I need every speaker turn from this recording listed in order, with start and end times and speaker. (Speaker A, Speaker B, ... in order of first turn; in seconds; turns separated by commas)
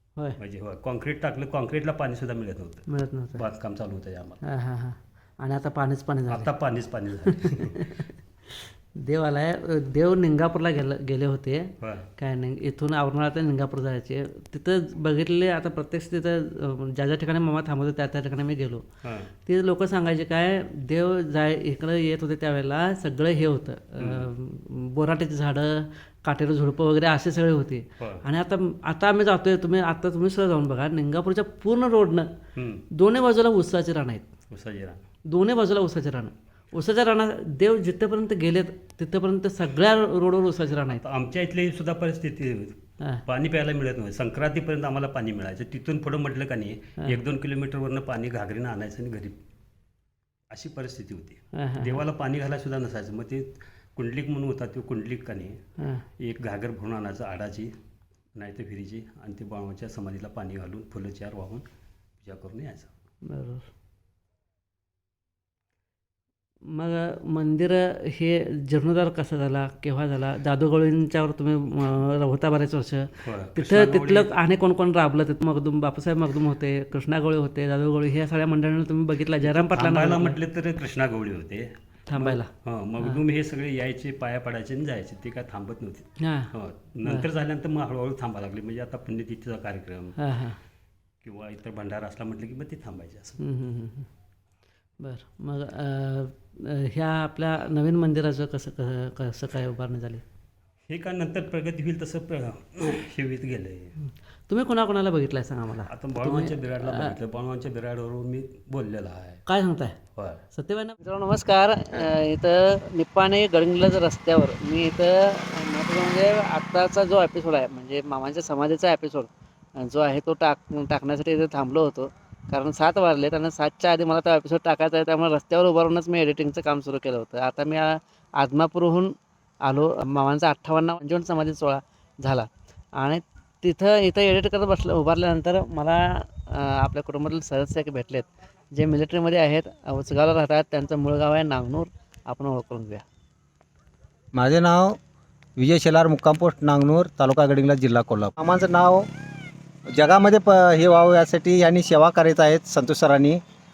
Speaker A: 0.4-4.4, Speaker B: 2.9-3.4, Speaker B: 4.5-6.5, Speaker A: 6.3-7.9, Speaker B: 7.2-18.8, Speaker A: 11.8-12.1, Speaker A: 19.0-19.3, Speaker B: 19.4-32.3, Speaker A: 24.0-24.3, Speaker A: 28.0-28.2, Speaker A: 32.5-32.9, Speaker B: 32.9-34.3, Speaker A: 34.5-35.0, Speaker B: 35.3-41.0, Speaker A: 40.9-49.4, Speaker A: 50.5-55.6, Speaker B: 51.6-52.0, Speaker A: 56.2-57.7, Speaker A: 58.4-61.6, Speaker A: 62.2-62.9, Speaker B: 63.2-63.6, Speaker B: 66.7-80.4, Speaker A: 73.2-74.3, Speaker A: 79.4-90.2, Speaker B: 82.1-82.5, Speaker B: 86.2-86.5, Speaker B: 90.2-90.6, Speaker A: 91.2-93.4, Speaker B: 93.4-94.1, Speaker B: 95.0-100.2, Speaker A: 100.9-103.9, Speaker B: 104.5-107.2, Speaker A: 105.9-109.4, Speaker B: 109.5-110.0, Speaker A: 110.2-110.4, Speaker B: 110.5-143.0, Speaker C: 144.3-145.0, Speaker C: 145.6-149.1, Speaker C: 149.9-153.4